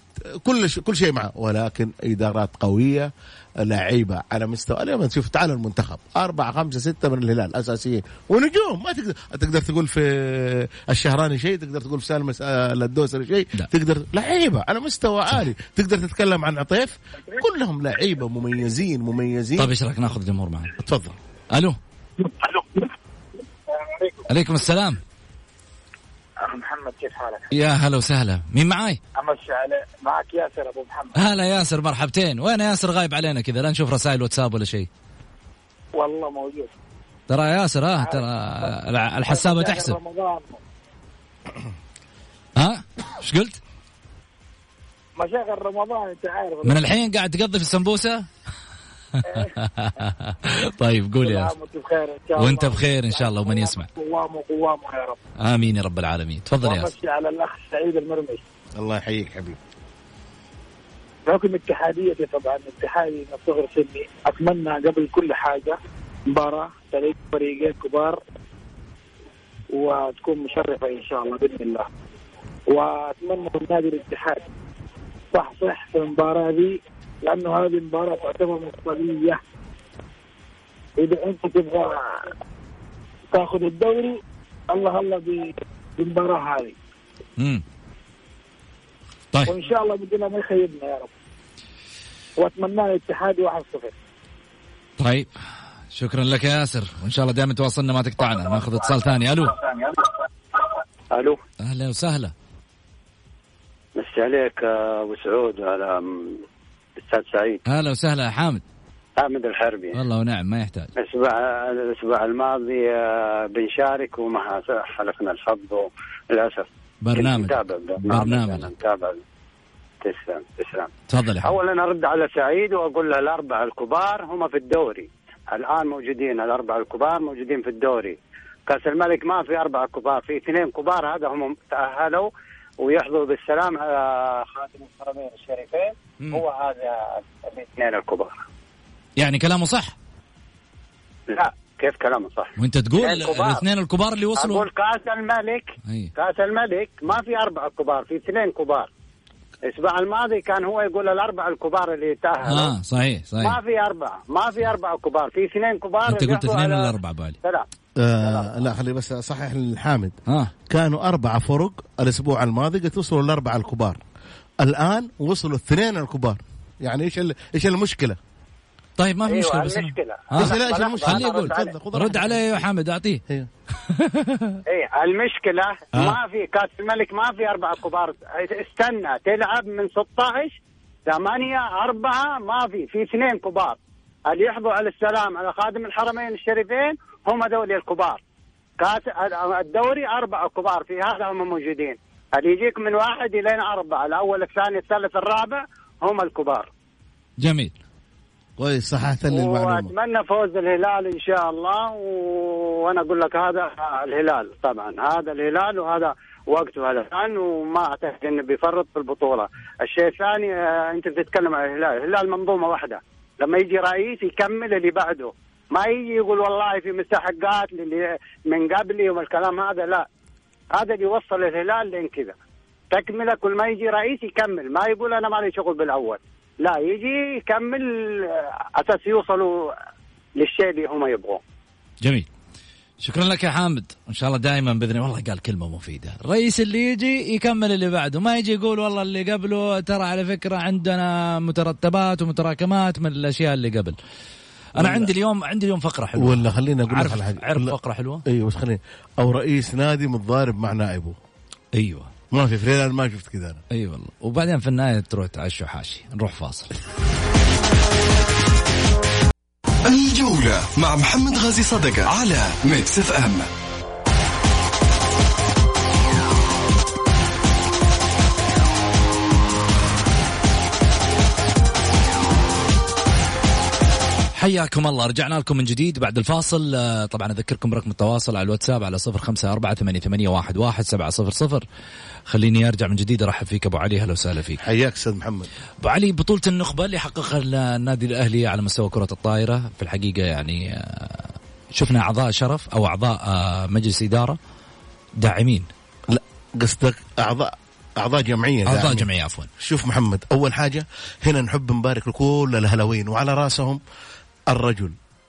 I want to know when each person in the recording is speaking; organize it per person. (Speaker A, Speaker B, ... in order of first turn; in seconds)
Speaker A: 0.2-3.1, 3.6-19.7, 20.8-21.1, 58.8-59.6, 158.0-160.1, 160.7-164.0, 164.6-168.2, 170.3-172.6, 198.6-199.9, 244.8-245.1, 246.2-251.2, 252.3-253.6, 284.6-285.5, 296.1-299.1, 299.6-303.8, 304.5-304.9
Speaker B: 19.6-20.7, 21.5-21.8, 24.3-25.0, 27.5-29.0, 31.1-34.9, 37.3-40.0, 42.5-43.6, 46.6-48.3, 49.3-51.5, 52.4-53.9, 55.4-56.9, 87.4-87.6, 95.0-95.3, 95.9-99.6, 101.6-102.3, 107.7-108.6, 109.9-110.9, 117.0-118.7, 121.1-121.5, 136.2-136.4, 139.2-139.9, 142.6-144.7, 145.8-146.1, 152.4-153.6, 156.1-157.4, 169.0-173.2, 173.9-174.6, 197.4-197.8, 232.0-232.3, 233.0-244.0, 244.8-248.2, 251.8-252.1, 253.7-256.7, 274.4-281.6, 282.3-284.6, 285.8-294.4, 295.2-295.7, 298.6-299.5
Speaker C: 22.2-22.9, 23.7-24.2, 26.4-27.5, 29.1-31.3, 36.0-36.7, 38.0-38.7, 39.3-40.6, 45.2-46.8, 49.2-49.5, 51.2-55.2, 56.6-58.4, 61.2-65.8, 66.3-68.2, 69.7-71.8, 72.7-74.4, 75.3-79.4, 81.0-82.3, 83.3-84.2, 84.7-86.8, 89.5-91.1, 92.4-93.9
Speaker D: 99.6-101.4, 104.0-106.4, 107.0-107.6, 109.2-110.0, 111.0-119.2, 120.0-120.9, 121.4-138.4, 141.3-143.6, 144.4-148.9, 149.7-152.8, 153.4-157.7, 158.2-158.6, 169.2-171.7, 174.7-183.8, 184.3-188.2, 188.8-196.7, 199.3-220.1, 220.8-222.3, 222.9-229.7, 230.4-231.4
Speaker E: 259.9-263.5